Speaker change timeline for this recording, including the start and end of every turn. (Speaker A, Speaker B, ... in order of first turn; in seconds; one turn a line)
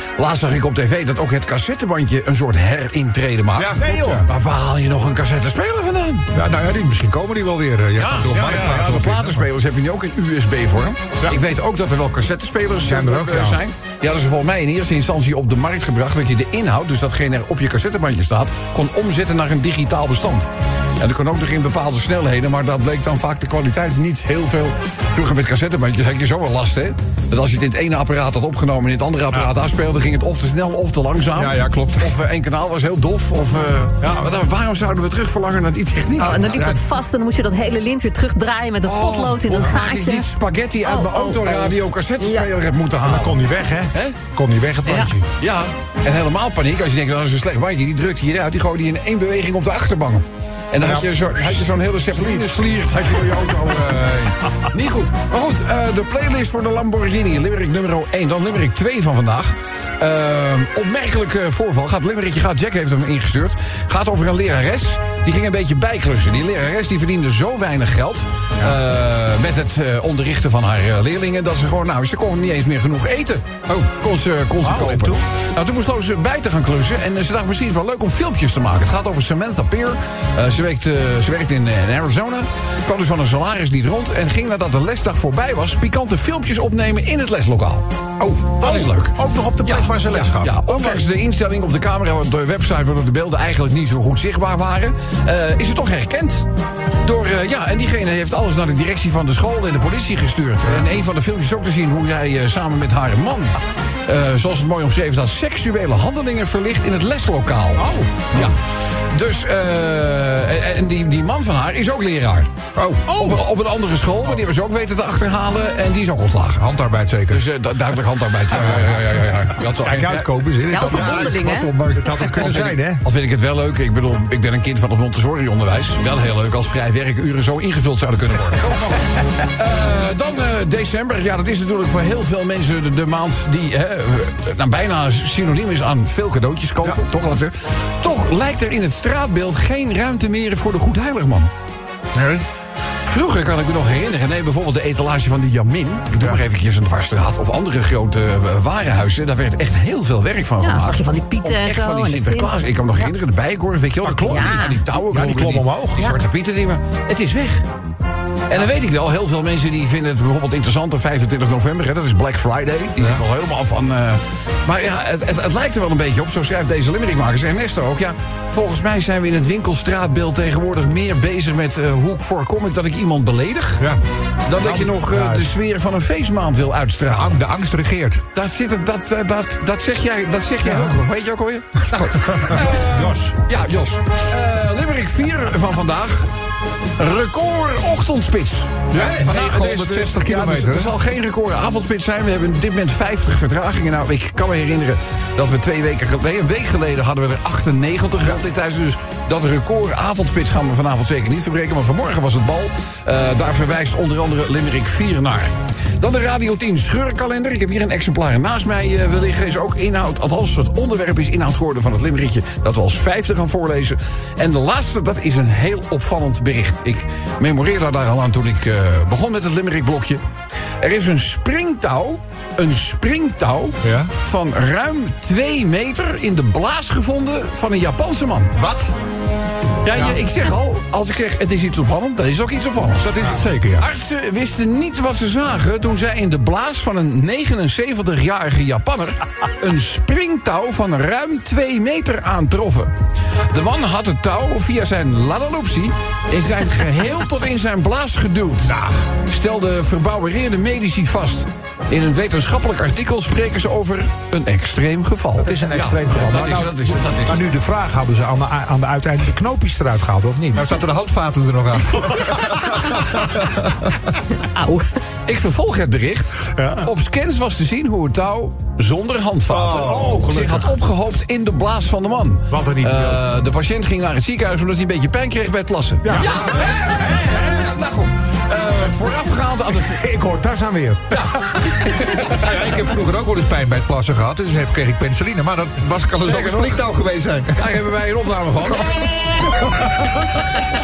Speaker A: 0.2-6.3
Speaker B: 3.6-4.3
Speaker C: 6.3-9.4
Speaker A: 8.0-36.8
Speaker B: 12.8-13.6
Speaker C: 31.4-32.1
Speaker B: 34.0-34.3
Speaker D: 36.2-40.3
Speaker A: 38.8-43.4
Speaker D: 40.8-42.5
Speaker B: 43.0-45.3
Speaker A: 43.9-44.2
Speaker A: 45.4-96.5
Speaker B: 50.8-52.7
Speaker B: 53.3-53.6
Speaker B: 74.6-75.2
Speaker B: 88.4-91.1
Speaker A: 97.0-108.6
Speaker B: 107.8-108.4
Speaker A: 109.1-112.5
Speaker C: 112.8-113.2
Speaker B: 113.1-113.4
Speaker A: 113.1-116.7
Speaker C: 116.6-117.5
Speaker A: 117.3-120.5
Speaker B: 119.7-121.4
Speaker D: 120.6-121.8
Speaker C: 120.8-122.7
Speaker B: 121.9-123.0
Speaker A: 122.3-128.9
Speaker A: 129.5-141.5
Speaker C: 142.2-142.4
Speaker A: 143.0-157.7
Speaker D: 150.6-153.1
Speaker B: 154.0-156.1
Speaker D: 154.3-154.8
Speaker A: 158.5-173.9
Speaker A: 174.4-177.4
Speaker B: 174.6-175.4
Speaker C: 177.1-178.2
Speaker A: 178.3-186.3
Speaker C: 181.9-182.4
Speaker B: 182.3-183.4
Speaker A: 187.0-220.2
Speaker C: 188.9-190.9
Speaker B: 188.9-189.2
Speaker A: 220.8-228.5
Speaker C: 223.8-224.1
Speaker C: 228.6-228.9
Speaker A: 229.8-242.9
Speaker C: 233.2-233.9
Speaker A: 243.5-257.4
Speaker B: 248.7-248.9
Speaker B: 255.4-260.8
Speaker C: 260.6-263.9
Speaker D: 264.6-264.9
Speaker A: 265.3-280.0
Speaker B: 266.6-266.9
Speaker B: 269.5-270.8
Speaker C: 269.8-270.1
Speaker B: 272.5-273.3
Speaker B: 276.0-276.6
Speaker B: 279.8-281.2
Speaker A: 281.1-282.4
Speaker C: 282.3-287.8
Speaker A: 286.2-286.8
Speaker A: 287.6-290.4